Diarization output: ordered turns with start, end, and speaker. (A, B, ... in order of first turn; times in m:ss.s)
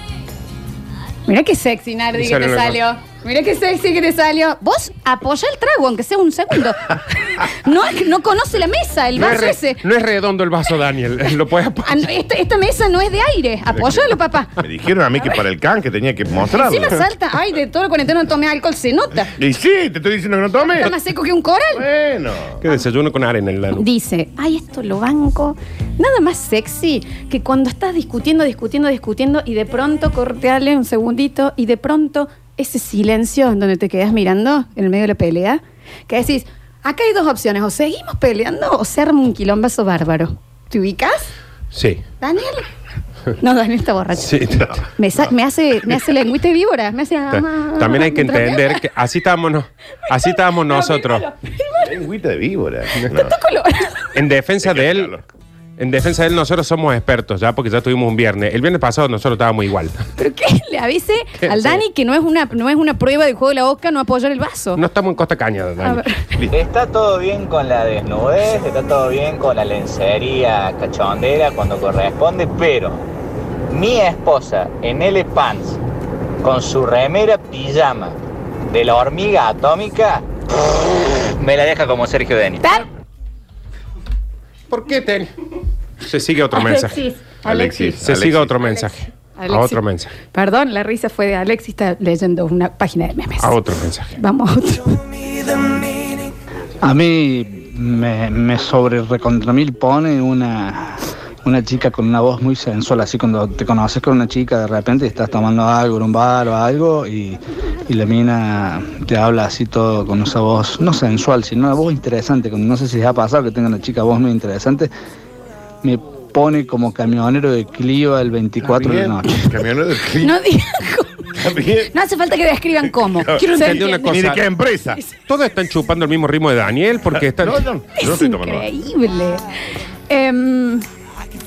0:01.3-0:09.8 A
0:02.2-0:02.8 B
0:09.2-0:12.1 B
0:11.9-0:14.5 A
0:13.7-0:17.0 C
0:16.5-0:19.3 A
0:19.4-0:20.9 C
0:20.7-0:21.8 A
0:21.7-0:22.6 C
0:22.6-0:23.8 B
0:23.7-0:41.3 A
0:41.7-0:42.0 B
0:42.2-0:42.7 A
0:43.4-0:48.8 A
0:44.2-0:44.7 B
0:47.3-0:51.2 B
0:50.3-0:51.9 A
0:51.8-0:53.4 C
0:53.0-0:54.1 A
0:54.2-0:55.2 B
0:54.6-0:55.2 C
0:55.8-1:00.0 B
1:00.2-1:04.8 A
1:01.4-1:01.8 B
1:04.8-1:06.0 B
1:05.8-1:06.4 A
1:06.5-1:13.0 D
1:13.7-1:15.8 D
1:16.4-1:18.2 D
1:18.7-1:20.2 D
1:21.4-1:22.6 D
1:24.7-1:25.3 B
1:26.1-1:27.0 B
1:26.5-1:28.0 A
1:27.4-1:28.6 C
1:28.0-1:30.1 B
1:29.4-1:29.8 A
1:30.3-1:33.6 A
1:33.4-1:34.1 B
1:34.2-1:35.0 A
1:36.8-1:54.9 E
1:55.8-1:59.5 E
1:58.6-2:00.4 C
2:00.2-2:01.3 A
2:01.4-2:01.9 C
2:01.9-2:04.3 A
2:03.1-2:05.0 C
2:03.6-2:04.4 B
2:05.3-2:07.7 B
2:07.2-2:08.7 C
2:08.0-2:09.4 A
2:10.1-2:10.8 A